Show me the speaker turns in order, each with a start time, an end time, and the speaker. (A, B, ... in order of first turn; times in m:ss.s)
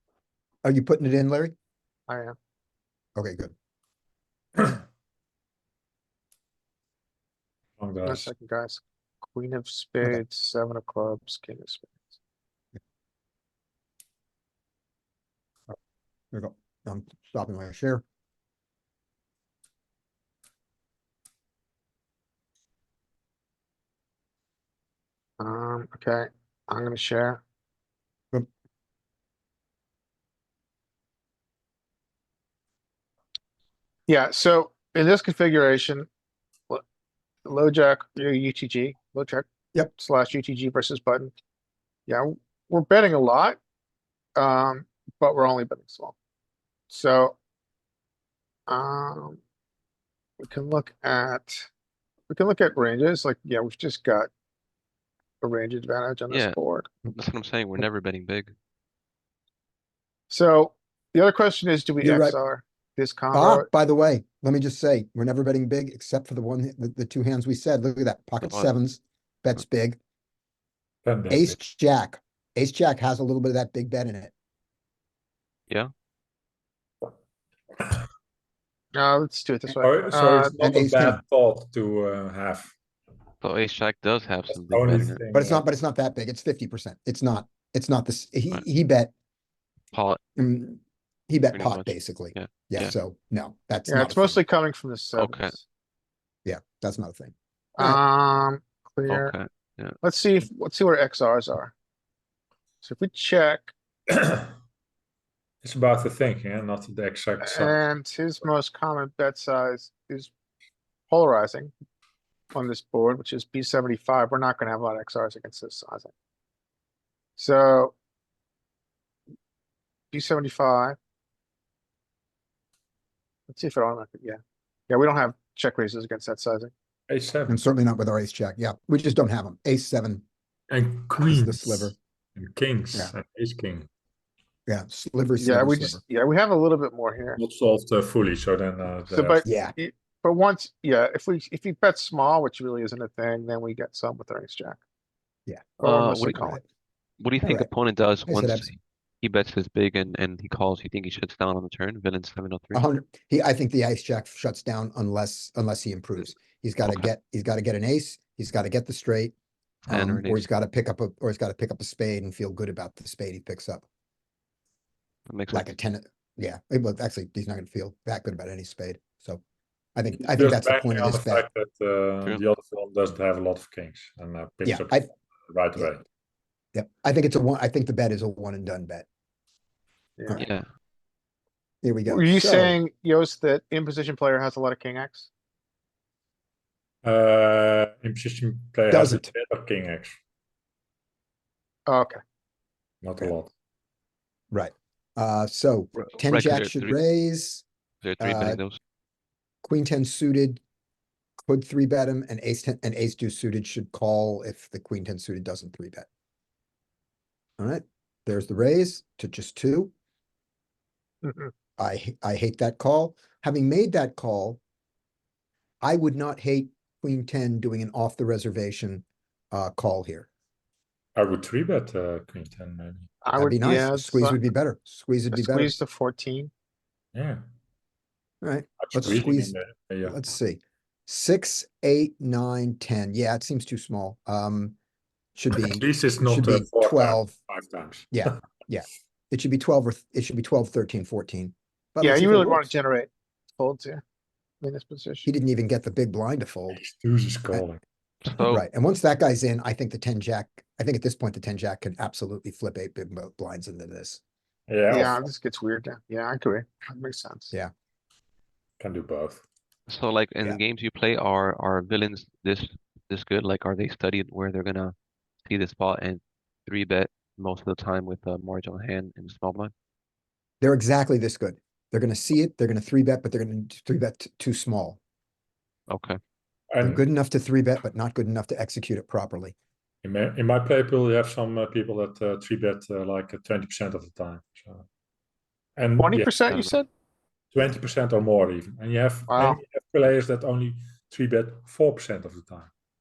0:00.6-0:01.5 A
0:02.1-0:02.4 B
0:03.2-0:03.5 A
0:07.8-0:08.3 C
0:08.0-0:12.2 B
0:16.3-0:18.0 A
0:25.4-0:27.4 B
0:34.1-0:36.1 B
0:37.4-0:41.3 B
0:42.1-0:43.6 B
0:44.4-0:46.2 B
0:46.9-0:47.4 B
0:48.7-0:49.4 B
0:50.4-0:51.7 B
0:52.3-0:54.3 B
0:55.4-0:56.9 B
0:56.3-0:56.6 D
0:57.1-0:58.5 D
1:00.3-1:03.7 B
1:02.0-1:02.4 A
1:03.3-1:10.0 A
1:08.4-1:08.7 D
1:11.0-1:11.6 C
1:11.3-1:14.3 A
1:18.9-1:20.6 B
1:19.8-1:22.7 C
1:20.6-1:21.2 A
1:23.4-1:25.2 D
1:24.5-1:25.6 C
1:25.3-1:29.1 A
1:29.9-1:30.2 D
1:30.4-1:34.4 A
1:31.5-1:32.9 D
1:33.9-1:35.6 B
1:35.1-1:35.5 D
1:36.4-1:38.0 A
1:37.8-1:39.3 B
1:39.1-1:40.0 D
1:40.0-1:41.7 B
1:42.8-1:43.7 B
1:44.1-1:44.5 C
1:45.6-1:47.8 C
1:47.4-1:50.3 B
1:51.1-1:51.7 B
1:52.5-1:56.1 B
1:57.4-1:58.0 B
2:00.1-2:01.0 B
2:03.5-2:06.7 B
2:07.1-2:07.6 C
2:07.5-2:10.2 A
2:10.7-2:13.9 C
2:11.2-2:12.0 A
2:14.7-2:15.9 A
2:15.4-2:17.4 B
2:17.4-2:19.4 C
2:19.1-2:24.8 B
2:19.4-2:19.7 A
2:25.8-2:26.6 B
2:25.8-2:26.5 D
2:27.2-2:32.8 D
2:27.4-2:27.7 A
2:28.3-2:28.7 A
2:32.7-2:39.3 A
2:39.9-2:40.4 D
2:39.9-2:43.8 A
2:45.3-2:45.7 D
2:45.5-2:49.4 A
2:49.9-2:51.4 A
2:50.2-2:56.0 C
2:54.6-2:55.1 A
2:56.7-2:59.0 A
3:00.2-3:00.4 B
3:00.4-3:00.6 D
3:01.8-3:02.8 A
3:02.1-3:05.3 B
3:07.0-3:10.2 C
3:08.9-3:09.2 A
3:11.9-3:12.2 B
3:13.0-3:13.5 C
3:14.5-3:17.6 A
3:16.0-3:16.9 D
3:18.0-3:18.8 D
3:18.2-3:18.6 A
3:19.6-3:20.6 A
3:21.5-3:26.0 A
3:27.6-3:29.9 A
3:31.2-3:31.5 B
3:31.8-3:34.6 A
3:35.8-3:40.3 A
3:41.1-3:43.1 C
3:43.2-3:44.4 B
3:43.3-3:45.7 A
3:45.3-3:46.5 B
3:47.1-3:47.4 C
3:48.4-3:49.5 A
3:48.8-3:50.2 C
3:50.0-3:54.8 A
3:55.4-3:57.3 A
3:55.5-3:58.3 C
3:58.1-4:02.7 A
4:02.0-4:04.0 B
4:04.6-4:05.3 B
4:05.2-4:06.8 A
4:06.7-4:07.8 C
4:08.2-4:08.6 D
4:08.4-4:14.2 A
4:14.7-4:15.2 C
4:14.9-4:17.5 B
4:18.8-4:19.4 C
4:19.9-4:24.9 D
4:25.4-4:29.7 D
4:30.6-4:35.0 A
4:35.9-4:36.2 D
4:36.7-4:37.0 C
4:36.8-4:39.5 A
4:40.0-4:44.8 C
4:45.8-4:46.6 C
4:46.0-4:46.9 B
4:47.5-4:52.7 C
4:49.3-4:49.6 B